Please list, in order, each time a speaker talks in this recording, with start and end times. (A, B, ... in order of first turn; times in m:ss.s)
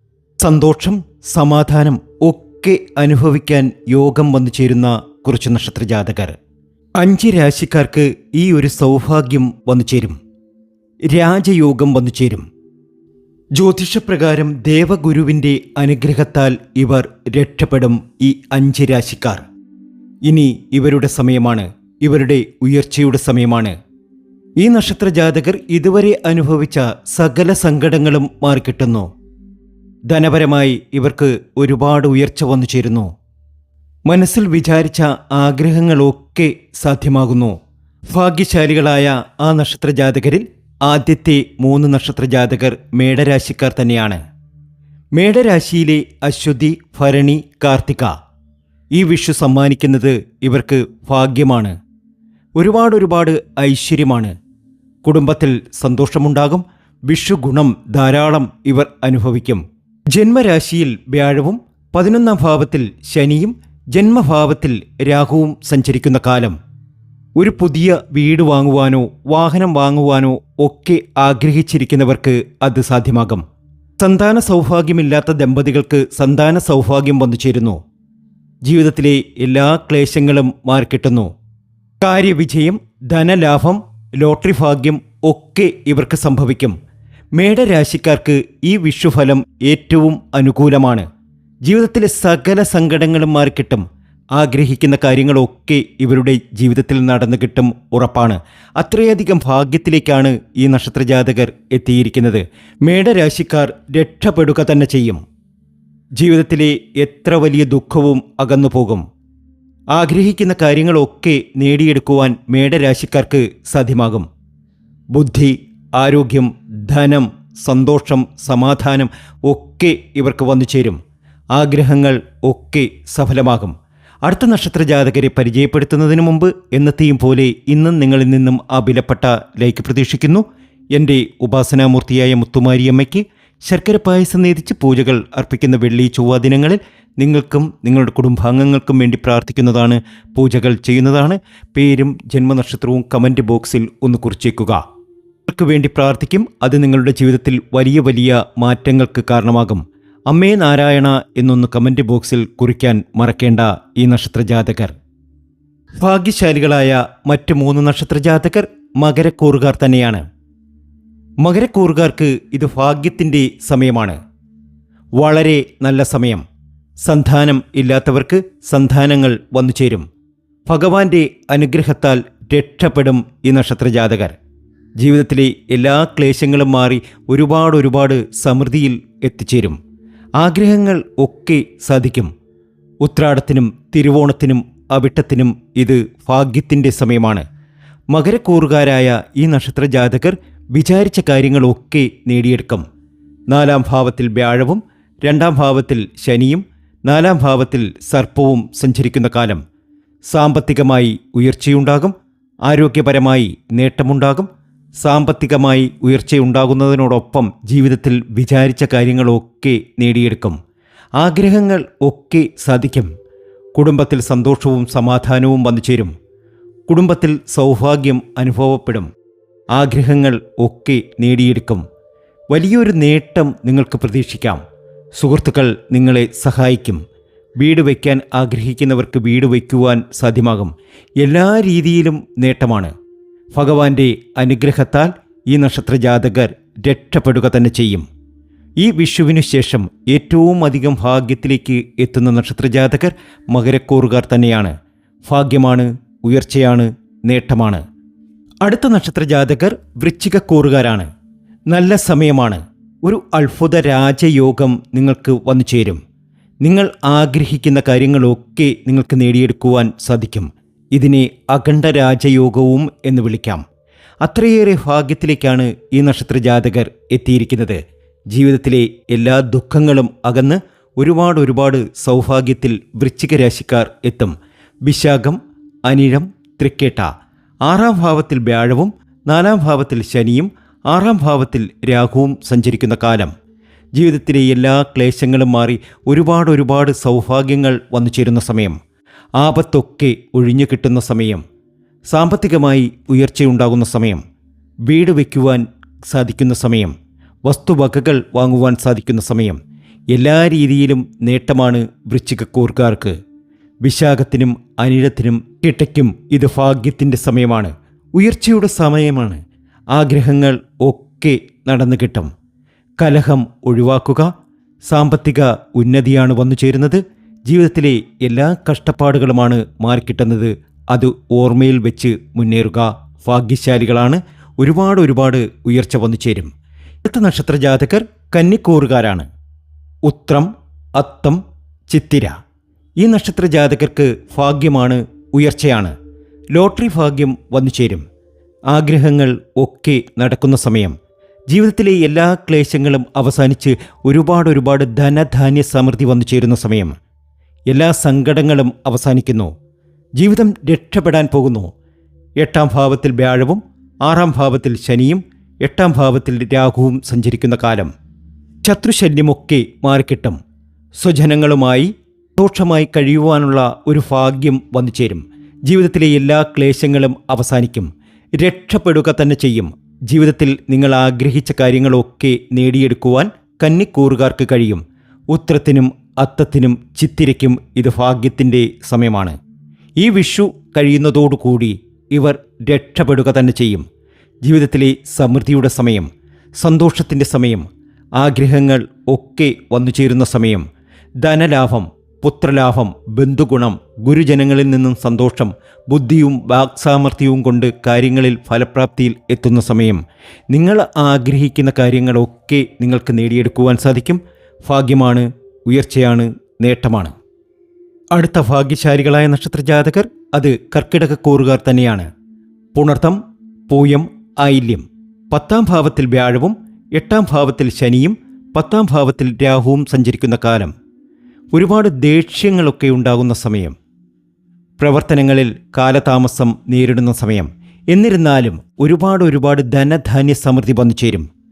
0:00.4-0:06.4 A
0:07.0-0:10.2 A
0:11.1-0:12.4 A
0:13.5-0:19.4 A
0:20.2-0:23.8 A
0:24.6-0:29.1 A
0:30.1-0:33.1 A
0:34.1-0:37.6 A
0:38.1-0:44.2 A
0:45.2-0:48.1 A
0:48.9-0:51.7 A
0:52.6-0:54.3 A
0:55.0-1:06.6 A
1:07.4-1:13.4 A
1:14.0-1:17.8 A
1:18.6-1:21.3 A
1:22.0-1:26.7 A
1:27.3-1:31.1 A
1:31.6-1:45.2 A
1:46.2-1:49.0 A
1:49.9-1:54.3 A
1:55.1-2:01.0 A
2:01.5-2:03.7 A
2:04.2-2:24.8 A
2:25.5-2:34.9 A
2:36.0-2:40.2 A
2:41.4-2:44.2 A
2:45.2-2:46.4 A
2:47.0-2:50.0 A
2:50.7-2:54.3 A
2:55.0-2:59.8 A
3:00.4-3:02.3 A
3:03.0-3:07.4 A
3:08.1-3:12.8 A
3:13.5-3:19.6 A
3:20.3-3:22.1 A
3:22.6-3:24.5 A
3:25.0-3:30.6 A
3:31.2-3:33.1 A
3:33.7-3:36.1 A
3:36.9-3:39.1 A
3:39.7-3:41.8 A
3:42.5-3:44.6 A
3:45.2-3:47.0 A
3:47.6-3:52.9 A
3:53.5-3:58.0 A
3:58.8-4:04.7 A
4:05.3-4:07.8 A
4:08.6-4:11.1 A
4:11.7-4:16.0 A
4:16.6-4:23.6 A
4:24.2-4:34.3 A
4:34.8-4:37.1 A
4:37.6-4:43.3 A
4:44.0-4:48.8 A
4:49.4-4:51.4 A
4:52.1-4:54.2 A
4:54.9-4:56.9 A
4:57.4-4:59.6 A
5:00.1-5:03.2 A
5:03.8-5:09.4 A
5:09.9-5:12.3 A
5:13.0-5:14.3 A
5:14.9-5:26.5 A
5:27.0-5:29.3 A
5:30.0-5:32.3 A
5:33.0-5:35.9 A
5:36.5-5:38.0 A
5:38.7-5:40.9 A
5:41.5-5:46.9 A
5:47.7-5:49.5 A
5:50.2-5:51.7 A
5:52.4-5:57.9 A
5:58.6-6:00.4 A
6:01.0-6:19.4 A
6:20.0-6:23.8 A
6:24.4-6:27.6 A
6:28.2-6:30.6 A
6:31.2-6:47.1 A
6:48.1-6:52.1 A
6:52.7-7:00.7 A
7:01.5-7:03.7 A
7:04.8-7:11.2 A